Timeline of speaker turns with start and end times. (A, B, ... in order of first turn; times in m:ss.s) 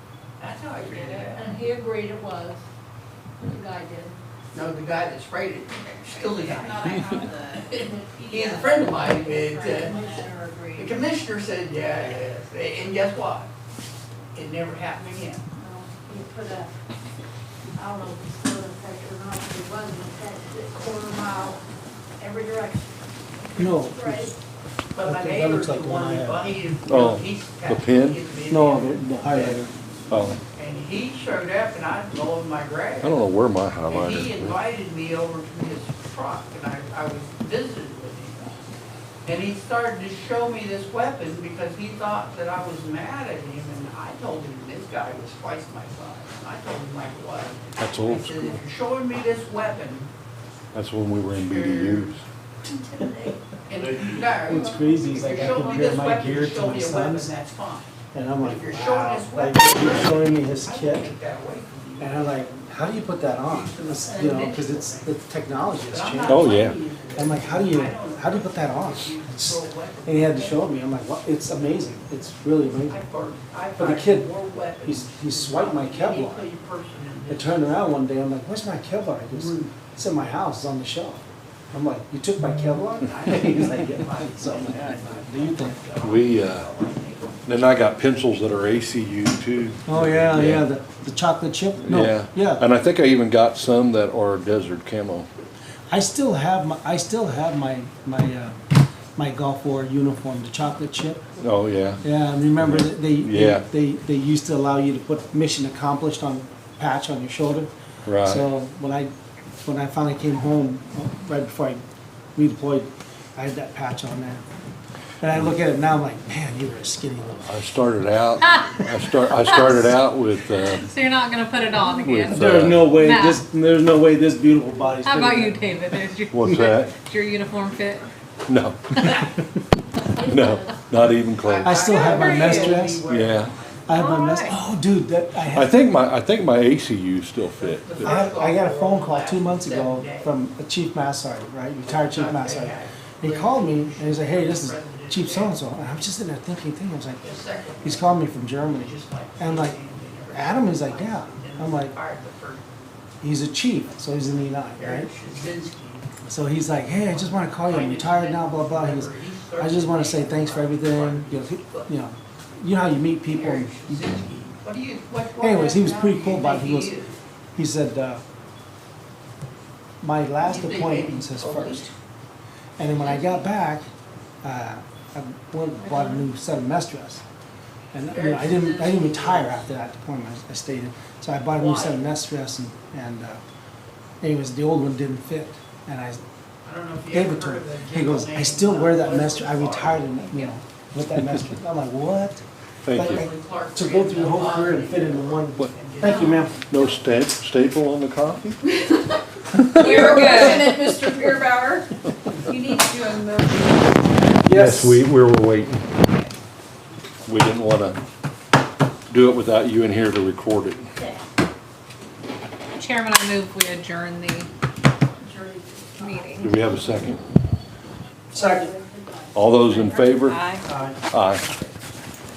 0:00.4-0:01.4 A
0:00.9-0:02.6 B
0:03.4-0:04.2 B
0:04.5-0:10.0 A
0:06.0-0:11.0 B
0:10.8-0:13.5 A
0:14.3-0:15.4 A
0:15.6-0:16.7 B
0:17.8-0:21.6 B
0:22.2-0:24.4 B
0:23.6-0:24.3 C
0:24.9-0:29.7 A
0:25.0-0:26.5 C
0:26.9-0:28.2 D
0:28.5-0:29.7 C
0:30.1-0:30.4 D
0:30.5-0:33.3 A
0:33.0-0:34.6 D
0:33.9-0:38.6 A
0:39.2-0:50.1 A
0:47.8-0:48.6 D
0:50.7-0:52.2 D
0:51.3-0:52.1 A
0:52.8-0:53.0 B
0:53.7-1:05.1 A
0:54.2-0:57.3 C
0:58.1-1:01.2 C
1:02.0-1:06.6 C
1:05.8-1:10.7 A
1:06.3-1:06.8 D
1:07.1-1:13.0 C
1:12.9-1:17.8 A
1:13.8-1:16.5 C
1:17.3-1:25.8 C
1:19.3-1:19.7 A
1:23.0-1:27.5 A
1:26.0-1:26.7 D
1:27.5-1:30.6 D
1:29.9-1:32.6 C
1:31.8-1:35.3 D
1:35.9-1:38.6 C
1:39.2-1:41.3 C
1:41.4-1:42.0 D
1:42.0-1:47.7 C
1:42.6-1:43.6 D
1:48.1-1:48.4 D
1:48.2-1:49.1 C
1:49.6-1:54.4 C
1:55.2-1:57.6 C
1:57.5-2:00.9 D
1:58.5-1:58.9 E
1:59.5-1:59.8 E
2:00.6-2:03.4 E
2:01.8-2:02.9 D
2:02.3-2:06.0 C
2:05.0-2:08.1 E
2:06.3-2:07.0 D
2:08.5-2:09.5 D
2:10.2-2:11.9 D
2:10.2-2:10.8 B
2:11.4-2:14.0 A
2:11.6-2:13.0 C
2:11.9-2:12.8 E
2:13.1-2:13.5 D
2:13.9-2:15.7 C
2:13.9-2:14.6 E
2:15.5-2:18.2 D
2:17.6-2:20.3 A
2:18.0-2:27.3 C
2:21.9-2:25.6 A
2:27.2-2:32.8 A
2:27.8-2:29.8 C
2:30.3-2:32.0 C
2:33.2-2:35.1 C
2:34.8-2:36.1 A
2:36.2-2:44.1 C
2:37.0-2:41.9 A
2:43.3-2:47.2 A
2:45.4-2:46.9 C
2:47.6-2:48.2 C
2:50.0-2:51.9 C
2:50.4-2:51.9 A
2:52.8-2:53.9 C
2:54.4-2:57.2 C
2:55.8-2:56.3 E
2:57.9-3:03.4 C
2:58.1-2:59.7 A
3:01.5-3:02.0 A
3:04.2-3:06.2 C
3:06.6-3:10.5 A
3:07.1-3:16.6 C
3:12.9-3:13.2 D
3:13.0-3:16.6 A
3:16.7-3:18.6 D
3:19.5-3:20.6 D
3:19.8-3:21.9 B
3:19.8-3:20.8 E
3:22.5-3:24.4 B
3:24.5-3:25.0 C
3:24.5-3:25.9 D
3:27.3-3:28.0 D
3:29.1-3:30.9 D
3:32.8-3:34.5 E
3:35.2-3:36.5 B
3:36.0-3:36.5 E
3:36.4-3:37.2 D
3:38.3-3:40.1 B
3:38.3-3:38.8 C
3:39.3-3:40.5 D
3:40.2-3:40.6 E
3:40.6-3:41.0 C
3:41.1-3:41.6 D